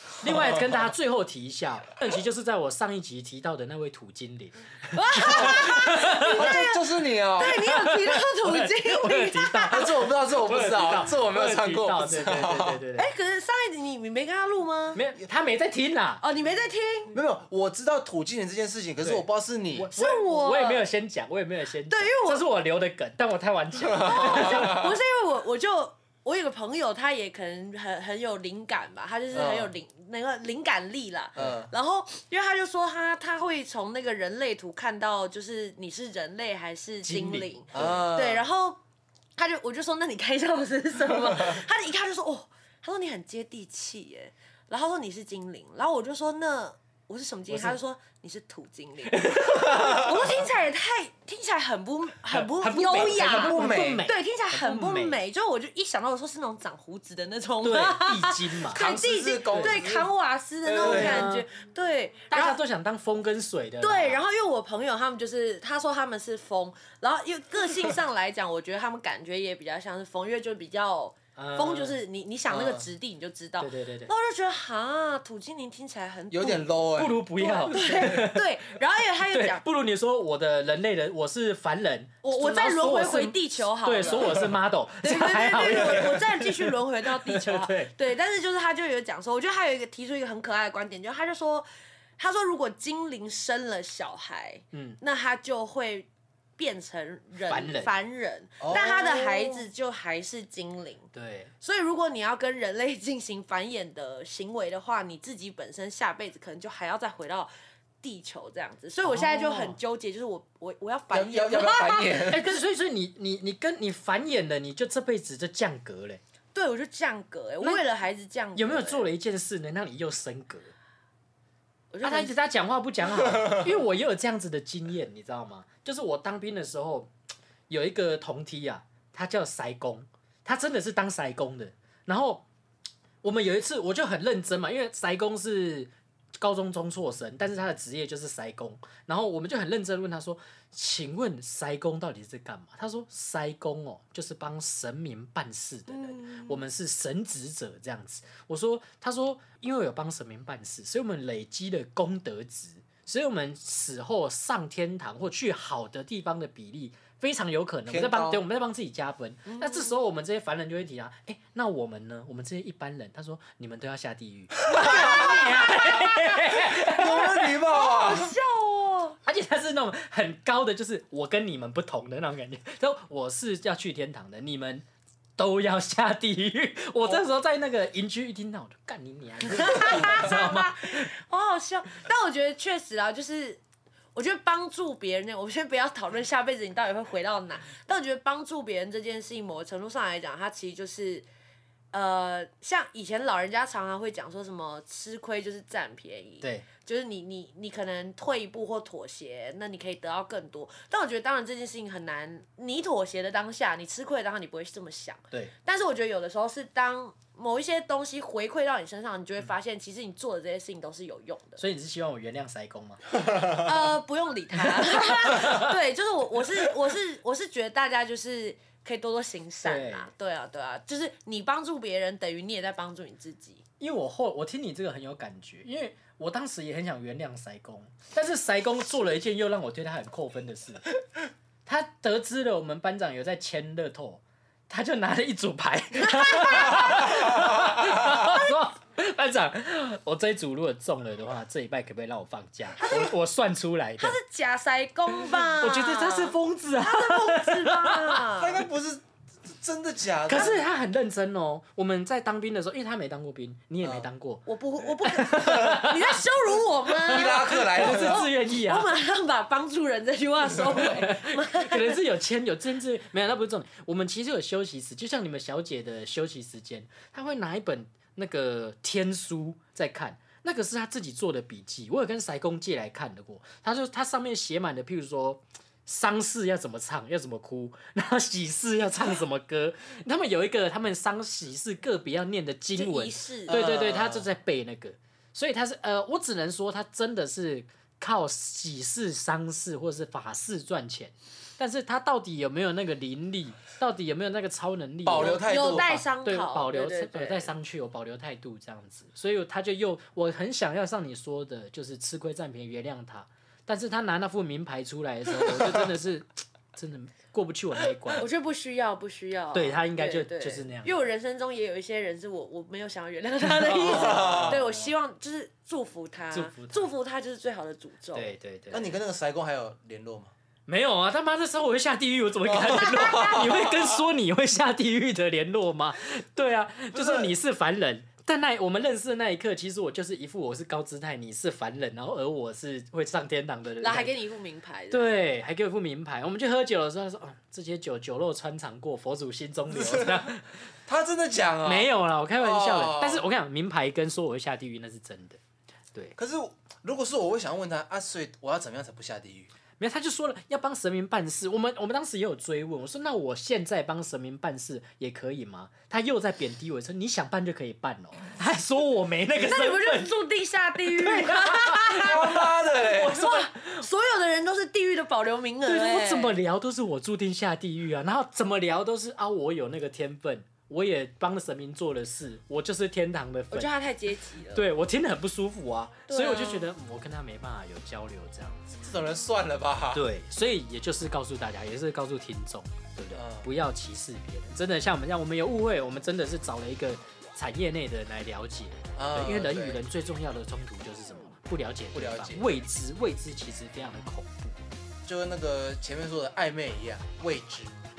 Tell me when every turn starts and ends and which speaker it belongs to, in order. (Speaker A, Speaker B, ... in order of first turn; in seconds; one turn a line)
Speaker A: 0.2-6.5
Speaker B: 0.2-0.7
Speaker C: 4.9-9.9
Speaker B: 5.3-7.6
Speaker A: 7.4-13.1
Speaker B: 9.7-12.8
Speaker C: 13.0-15.0
Speaker A: 14.9-16.2
Speaker C: 16.2-17.1
Speaker B: 17.1-19.9
Speaker A: 19.0-24.8
Speaker C: 19.9-20.9
Speaker C: 21.9-22.4
Speaker C: 23.9-38.8
Speaker B: 24.4-24.8
Speaker B: 29.3-29.7
Speaker B: 31.4-31.7
Speaker A: 37.0-37.9
Speaker B: 37.7-38.4
Speaker C: 39.4-62.6
Speaker A: 47.5-47.8
Speaker A: 49.1-50.1
Speaker B: 49.7-50.1
Speaker A: 52.3-55.2
Speaker B: 52.9-54.0
Speaker A: 57.6-58.8
Speaker B: 58.7-60.1
Speaker B: 60.6-61.3
Speaker A: 60.8-61.5
Speaker A: 62.3-64.2
Speaker C: 63.8-76.8
Speaker A: 71.3-72.0
Speaker B: 72.5-72.8
Speaker A: 73.6-74.1
Speaker B: 76.3-78.2
Speaker A: 77.0-78.5
Speaker C: 77.4-79.6
Speaker A: 79.3-87.9
Speaker C: 82.2-84.5
Speaker C: 85.0-101.1
Speaker A: 94.7-95.0
Speaker A: 97.5-97.9
Speaker B: 98.6-99.5
Speaker A: 101.1-101.5
Speaker C: 101.6-107.5
Speaker C: 108.0-112.5
Speaker A: 109.0-109.8
Speaker B: 111.1-112.6
Speaker A: 112.2-116.2
Speaker C: 116.5-119.1
Speaker A: 118.5-120.7
Speaker C: 121.9-122.3
Speaker A: 122.0-127.1
Speaker A: 127.7-132.4
Speaker A: 133.2-167.5
Speaker C: 145.9-146.6
Speaker B: 157.9-158.4
Speaker C: 159.5-159.9
Speaker B: 164.7-168.3
Speaker C: 164.7-166.4
Speaker C: 167.0-169.2
Speaker A: 169.2-174.8
Speaker A: 175.4-181.1
Speaker C: 179.5-183.6
Speaker C: 184.1-191.3
Speaker C: 191.9-211.6
Speaker A: 196.4-196.7
Speaker A: 211.6-213.0
Speaker C: 213.3-223.6
Speaker A: 214.6-215.7
Speaker A: 219.6-220.1
Speaker A: 223.8-230.8
Speaker A: 231.7-244.2
Speaker C: 236.0-237.5
Speaker C: 238.0-238.5
Speaker C: 242.8-243.1
Speaker C: 244.0-248.6
Speaker A: 245.1-248.2
Speaker B: 248.3-250.6
Speaker A: 250.3-254.4
Speaker C: 254.4-262.0
Speaker A: 255.0-256.2
Speaker B: 257.0-258.3
Speaker A: 257.1-258.9
Speaker A: 260.7-308.3
Speaker C: 282.8-283.6
Speaker B: 283.5-284.3
Speaker B: 295.0-296.0
Speaker C: 295.2-297.5
Speaker C: 308.1-318.3
Speaker A: 309.5-311.0
Speaker A: 313.4-314.9
Speaker B: 313.9-314.6
Speaker A: 316.3-316.9
Speaker A: 318.1-319.0
Speaker B: 318.7-320.3
Speaker A: 320.7-334.1
Speaker B: 322.5-324.0
Speaker C: 322.6-323.7
Speaker B: 326.9-327.3
Speaker C: 333.8-335.1
Speaker A: 334.9-340.6
Speaker B: 339.7-340.3
Speaker B: 340.9-343.2
Speaker A: 341.6-345.4
Speaker B: 346.2-349.5
Speaker A: 349.8-360.1
Speaker C: 359.3-366.4
Speaker A: 361.0-362.4
Speaker B: 361.9-363.2
Speaker A: 363.1-363.8
Speaker A: 365.6-373.7
Speaker C: 373.5-374.7
Speaker A: 374.5-378.8
Speaker C: 376.1-376.7
Speaker B: 378.8-380.0
Speaker A: 379.9-394.6
Speaker B: 383.1-383.5
Speaker B: 388.9-389.8
Speaker B: 391.9-392.6
Speaker B: 395.1-397.8